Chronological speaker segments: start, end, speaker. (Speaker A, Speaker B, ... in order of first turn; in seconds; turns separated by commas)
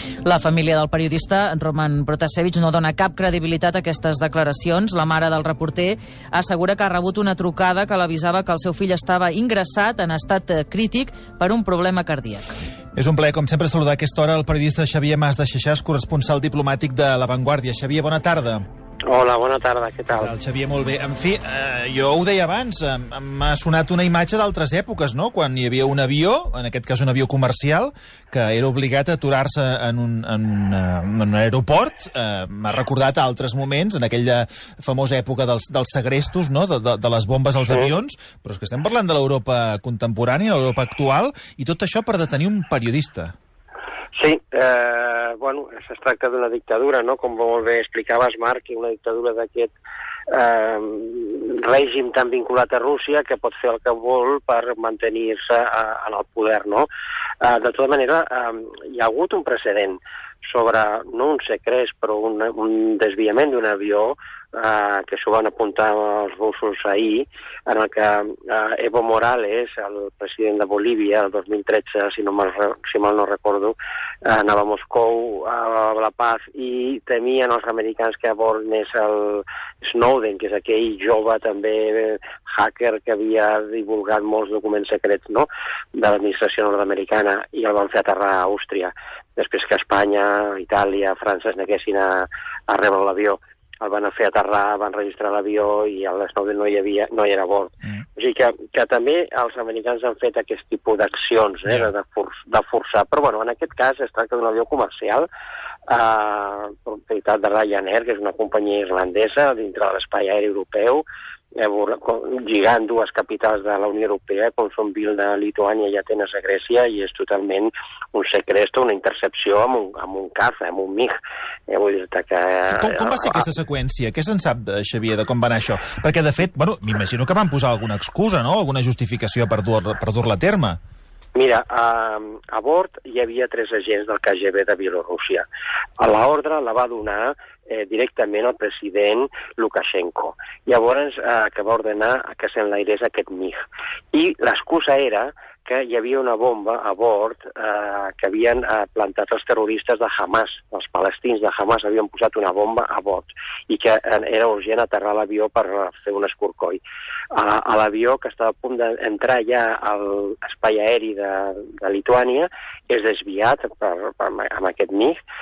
Speaker A: 0.2-12.5, Speaker B: 13.0-18.7, Speaker C: 19.1-20.4, Speaker B: 20.1-43.3, Speaker C: 44.1-49.7, Speaker C: 50.3-56.9, Speaker C: 57.4-105.3, Speaker C: 105.9-111.0, Speaker C: 111.6-123.5, Speaker B: 122.7-130.8, Speaker C: 131.3-135.5, Speaker C: 136.0-143.6, Speaker C: 144.1-156.8, Speaker C: 157.3-165.2